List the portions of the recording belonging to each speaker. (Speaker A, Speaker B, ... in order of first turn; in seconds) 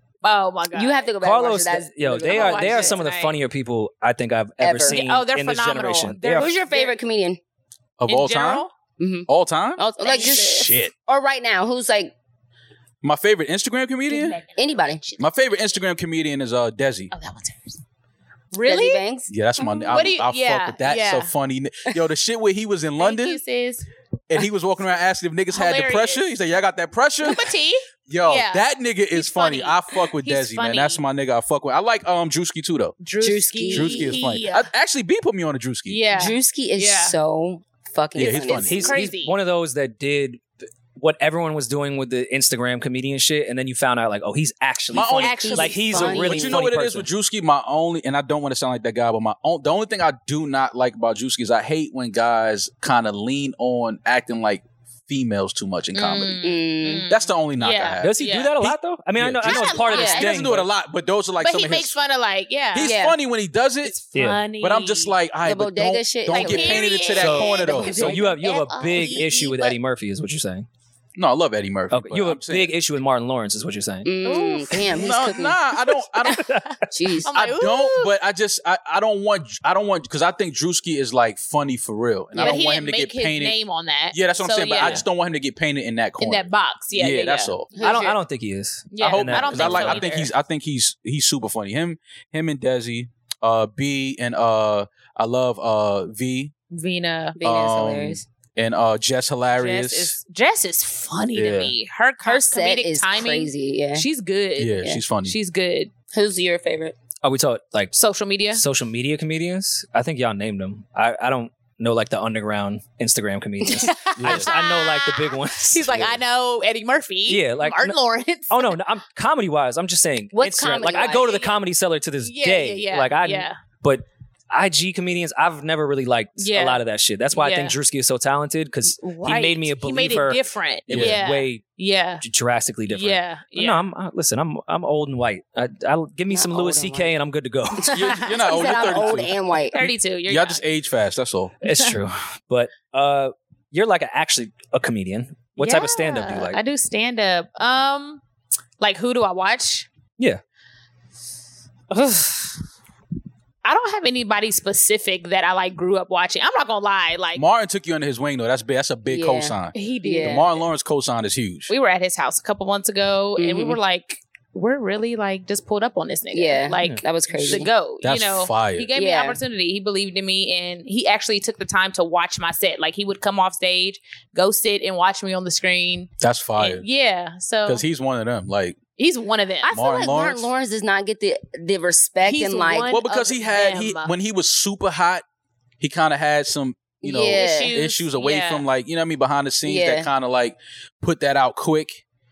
Speaker A: 0.2-1.1, 2.2-3.4, 4.8-7.0, 8.1-8.7, 10.0-10.7, 14.1-15.3, 17.1-17.8, 18.5-19.0, 19.6-21.3, 23.0-23.9, 25.5-26.2, 27.2-31.0, 33.0-34.7, 35.9-37.1, 38.5-39.3, 45.2-46.4, 55.9-58.5, 59.4-60.3, 61.4-62.9, 63.8-65.1, 66.3-69.8, 74.2-74.9, 77.2-78.1, 82.4-85.0, 86.2-88.1, 88.9-90.3, 96.7-97.4, 99.6-105.9, 108.0-108.6, 113.9-118.8, 122.2-123.6, 126.4-126.8, 127.3-127.8, 129.0-132.2, 132.9-133.8, 137.9-140.6, 141.7-141.9, 145.6-148.2, 148.8-149.9, 153.6-157.4, 159.7-160.5, 161.7-177.8, 179.0-179.7, 182.2-184.1, 187.3-188.6
Speaker B: 0.7-3.0, 4.6-5.0, 6.3-7.4, 9.0-12.1, 14.6-15.0, 18.6-19.3, 33.2-34.2, 36.1-39.0, 45.3-46.6, 56.4-57.1, 59.9-60.3, 62.8-63.1, 65.4-68.3, 74.0-75.5, 76.9-77.3, 82.3-82.6, 87.8-88.1, 97.3-98.2, 102.2-104.0, 106.1-107.0, 120.3-121.5, 136.3-137.1, 137.8-139.8, 159.1-160.5, 163.4-163.8, 166.3-167.7, 168.9-169.4, 179.6-182.9, 187.0-187.8, 189.7-190.1
Speaker C: 1.2-6.5, 38.6-47.1, 58.0-60.7, 64.1-64.4, 67.2-70.7, 71.9-74.1, 76.2-76.8, 87.8-90.0, 107.2-108.0, 108.5-116.2, 117.3-118.0, 118.5-131.6, 132.2-138.0, 141.6-146.6, 151.9-152.5, 166.8-167.0
Speaker D: 8.0-8.7, 9.3-9.8, 10.4-10.9, 13.0-14.4, 15.2-17.1, 19.3-23.4, 24.3-27.5, 28.1-33.0, 33.7-36.0, 38.1-38.9, 44.9-45.5, 46.1-56.4, 57.0-62.0, 62.7-64.0, 64.6-68.2, 71.2-72.7, 74.9-76.5, 77.3-83.6, 84.1-87.7, 89.0-96.5, 97.4-100.2, 101.3-101.7, 104.6-105.3, 114.2-114.5, 130.9-131.2, 137.9-141.5, 157.3-161.7, 167.5-168.9, 176.2-176.8, 177.7-178.8, 179.7-180.5, 182.9-185.2, 185.8-192.0